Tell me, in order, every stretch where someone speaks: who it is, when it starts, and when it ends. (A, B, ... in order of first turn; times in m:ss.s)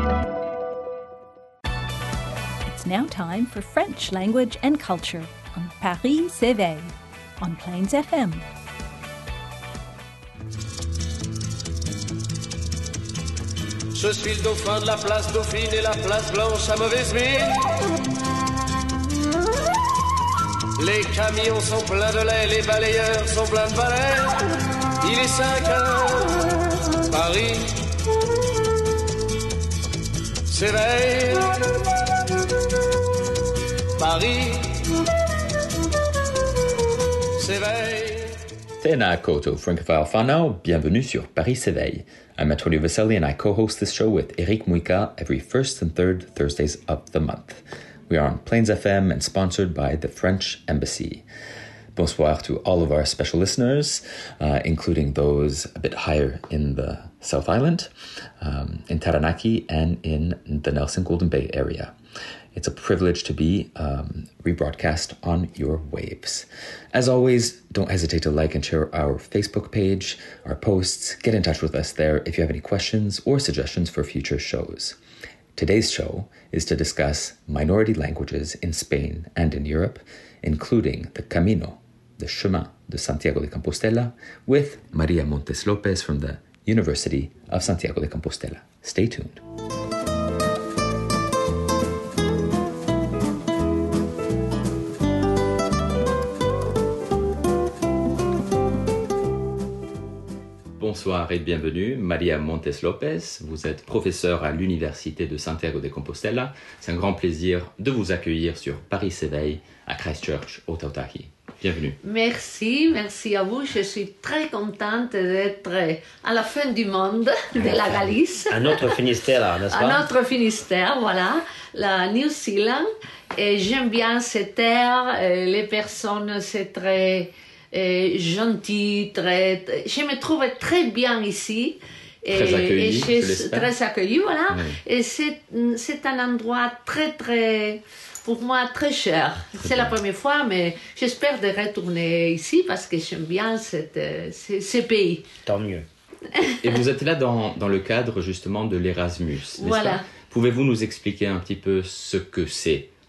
0:02.6-0:08.4 A
0:13.9-0:17.8 B
0:20.8-0:24.4 B
0:25.0-0:26.6 B
0:27.1-0:27.9 B
0:30.5-0:31.6 B
0:34.0-0:35.0 B
0:37.4-0:38.4 B
0:38.8-0:51.2 C
0:51.9-0:57.9 C
0:58.4-1:01.9 C
1:02.5-1:15.0 C
1:15.6-1:29.4 C
1:40.8-1:52.0 C
1:52.0-1:59.0 D
1:57.6-1:58.1 C
1:58.5-2:00.0 E
1:59.7-2:25.2 D
2:12.3-2:13.7 C
2:14.5-2:14.8 C
2:19.6-2:20.0 C
2:25.4-2:25.8 E
2:26.3-2:26.7 D
2:26.6-2:32.9 C
2:29.6-2:30.0 D